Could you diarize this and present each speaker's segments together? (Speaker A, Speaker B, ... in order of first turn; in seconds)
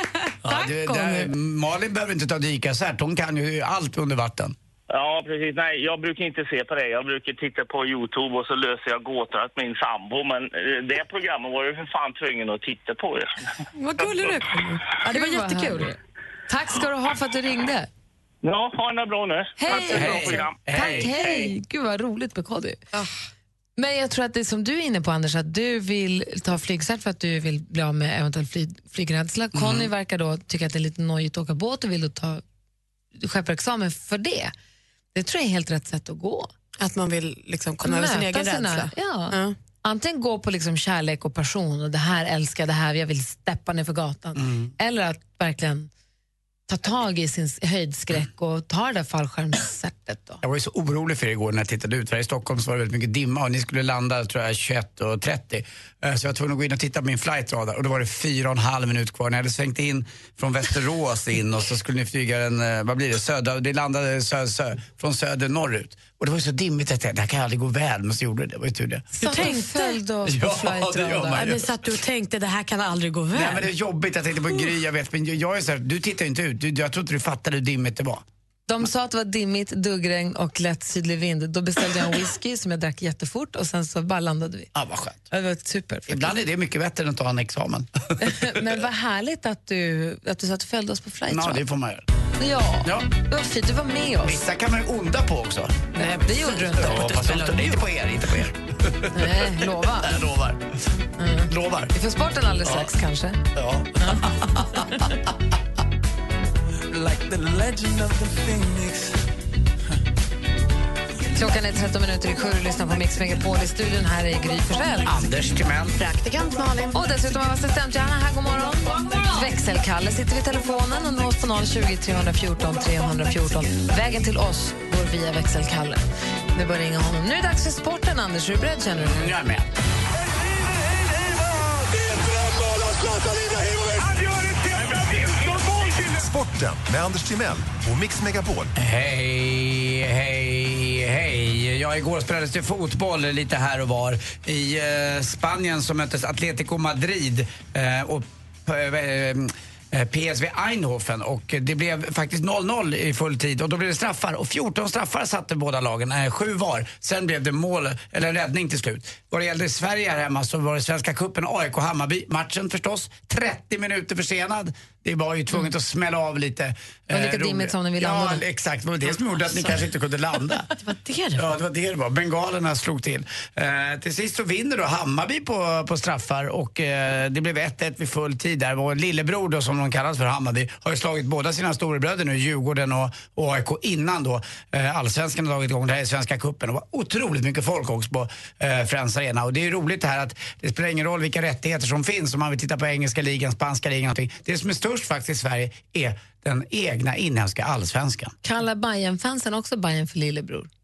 Speaker A: 0.4-4.5, 19.8-21.2, 29.5-29.9, 44.4-44.7, 50.4-69.5, 70.2-71.7, 73.3-78.2, 84.7-85.3, 86.1-88.6, 91.3-92.0, 92.8-93.1, 94.2-95.9, 96.7-100.8, 101.5-101.9, 102.6-102.9, 103.5-104.9, 115.0-116.0, 129.0-129.7, 138.8-170.7, 171.4-198.3
Speaker B: 4.9-13.4, 18.4-21.5
Speaker C: 13.8-15.9, 36.8-39.5, 69.2-70.0, 71.3-73.7, 96.0-97.7, 116.0-117.0, 169.2-169.8, 170.8-171.6
Speaker D: 15.1-17.9, 19.6-22.8, 23.8-32.4, 33.1-34.5, 35.1-36.5, 37.8-45.9, 46.7-50.4, 69.1-71.5, 78.7-84.7, 85.3-86.4, 88.2-91.6, 92.4-94.4, 96.0-97.3, 99.1-100.2, 101.2-103.4, 104.0-105.0, 111.3-115.2, 116.9-126.0, 126.5-129.3, 167.1-168.4, 198.4-200.7
Speaker E: 106.9-109.1
Speaker F: 130.9-138.7